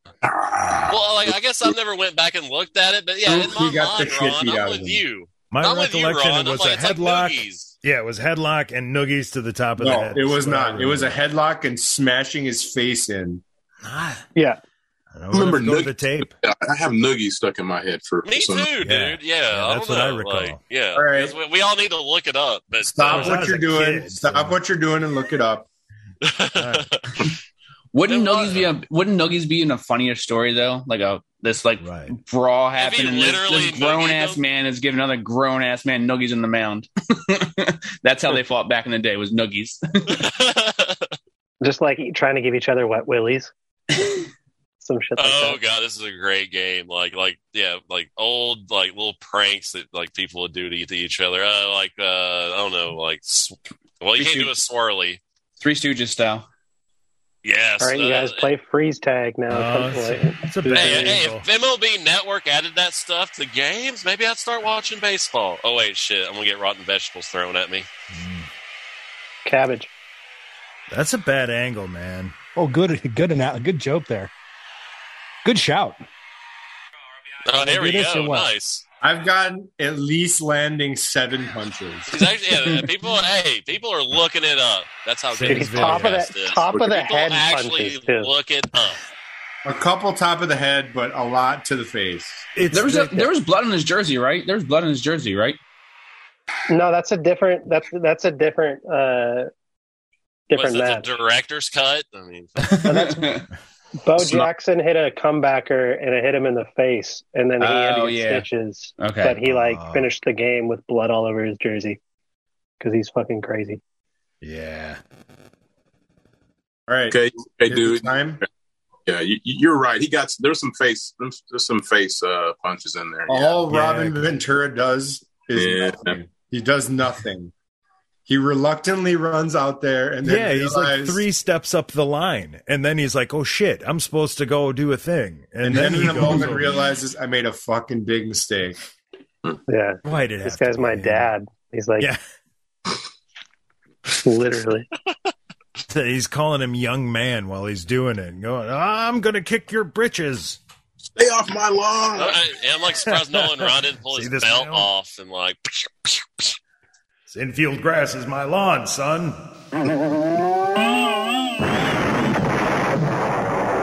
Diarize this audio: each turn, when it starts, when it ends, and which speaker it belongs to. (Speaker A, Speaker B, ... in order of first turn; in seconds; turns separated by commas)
Speaker A: 0.2-1.0, Speaker B: 0.9-7.7, Speaker C: 3.3-5.0, Speaker D: 5.5-11.2, Speaker C: 9.8-13.4, Speaker D: 13.8-14.2, Speaker E: 14.3-14.6, Speaker D: 15.1-16.3, Speaker A: 15.3-18.7, Speaker B: 18.2-23.6, Speaker D: 18.8-20.6, Speaker C: 20.9-21.4, Speaker C: 22.9-25.7, Speaker D: 23.1-24.6, Speaker B: 26.2-27.1, Speaker D: 26.6-26.9, Speaker F: 27.9-40.2, Speaker B: 28.1-28.6, Speaker D: 31.8-32.1, Speaker B: 32.8-34.4, Speaker B: 40.1-41.1, Speaker E: 41.6-43.5, Speaker E: 44.8-45.6, Speaker B: 45.2-55.2, Speaker F: 54.2-54.5, Speaker F: 55.6-56.5, Speaker B: 57.4-58.5, Speaker E: 57.8-61.2, Speaker D: 59.5-61.4, Speaker B: 60.7-67.9, Speaker D: 68.1-68.5, Speaker E: 69.5-69.9, Speaker D: 70.9-72.3, Speaker G: 72.5-74.3, Speaker G: 75.4-76.0, Speaker B: 77.5-78.8, Speaker G: 77.5-78.5, Speaker C: 79.0-82.1, Speaker B: 82.1-89.0, Speaker D: 85.3-86.2, Speaker E: 85.4-88.3, Speaker C: 89.7-92.5, Speaker D: 92.5-93.2, Speaker F: 92.7-95.6, Speaker E: 96.7-99.5, Speaker E: 100.5-101.1, Speaker B: 100.5-102.6, Speaker F: 102.6-103.5, Speaker E: 102.8-103.4, Speaker E: 104.0-112.0, Speaker F: 104.2-104.5, Speaker F: 107.6-108.5, Speaker F: 109.0-109.4, Speaker D: 109.4-110.1, Speaker E: 112.8-113.8, Speaker D: 114.4-115.0, Speaker C: 116.9-118.4, Speaker A: 117.1-118.2, Speaker A: 119.1-123.6, Speaker C: 123.3-127.5, Speaker D: 123.7-124.4, Speaker A: 125.5-126.2, Speaker C: 128.3-131.2, Speaker D: 130.2-136.8, Speaker C: 135.6-138.8, Speaker E: 139.7-142.1, Speaker D: 140.0-141.3, Speaker E: 144.2-144.9, Speaker D: 145.9-150.6, Speaker A: 151.2-152.4, Speaker B: 152.2-156.5, Speaker D: 153.1-154.9, Speaker D: 157.3-159.4